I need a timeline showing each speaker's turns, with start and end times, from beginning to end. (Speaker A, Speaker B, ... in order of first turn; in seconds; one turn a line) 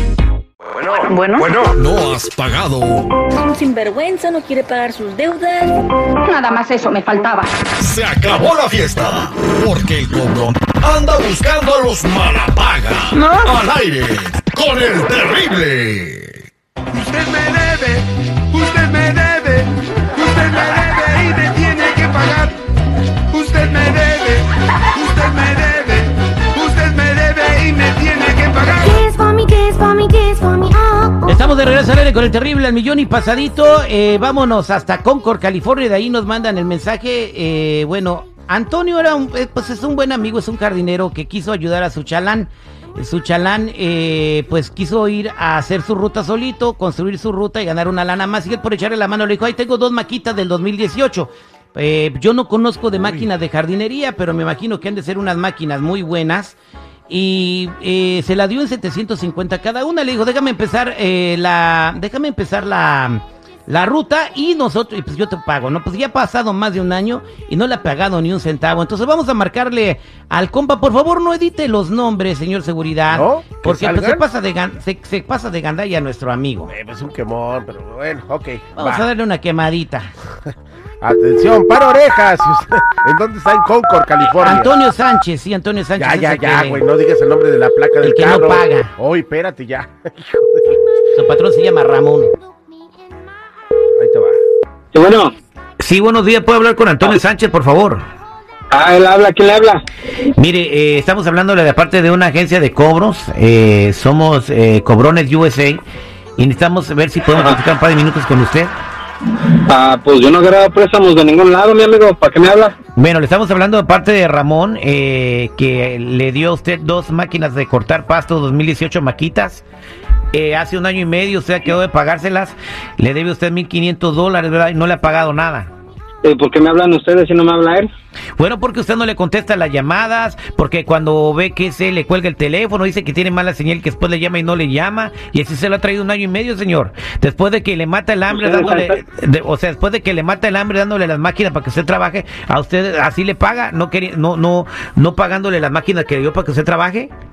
Speaker A: 1.0-1.5
Speaker B: 1.4-3.2
Speaker C: 3.3-5.8
Speaker A: 6.2-7.5
Speaker B: 7.8-16.4
Speaker A: 13.1-13.5
Speaker D: 16.9-22.6
Speaker D: 23.3-28.9
Speaker E: 28.9-31.2
Speaker F: 31.3-56.6
Speaker F: 57.1-76.7
Speaker G: 73.1-74.2
Speaker G: 76.7-79.1
Speaker F: 78.8-80.1
Speaker G: 81.0-84.8
Speaker F: 84.3-86.8
Speaker G: 86.0-90.8
Speaker F: 88.0-88.9
Speaker F: 91.1-92.3
Speaker G: 94.0-94.4
Speaker H: 94.9-95.3
Speaker F: 95.8-98.0
Speaker H: 98.7-99.9
Speaker F: 100.3-105.8
Speaker F: 106.4-108.7
Speaker H: 109.7-112.7
Speaker F: 113.0-119.7
Speaker F: 120.3-125.7
Speaker H: 126.2-127.9
Speaker F: 128.4-147.1
Speaker H: 138.3-139.0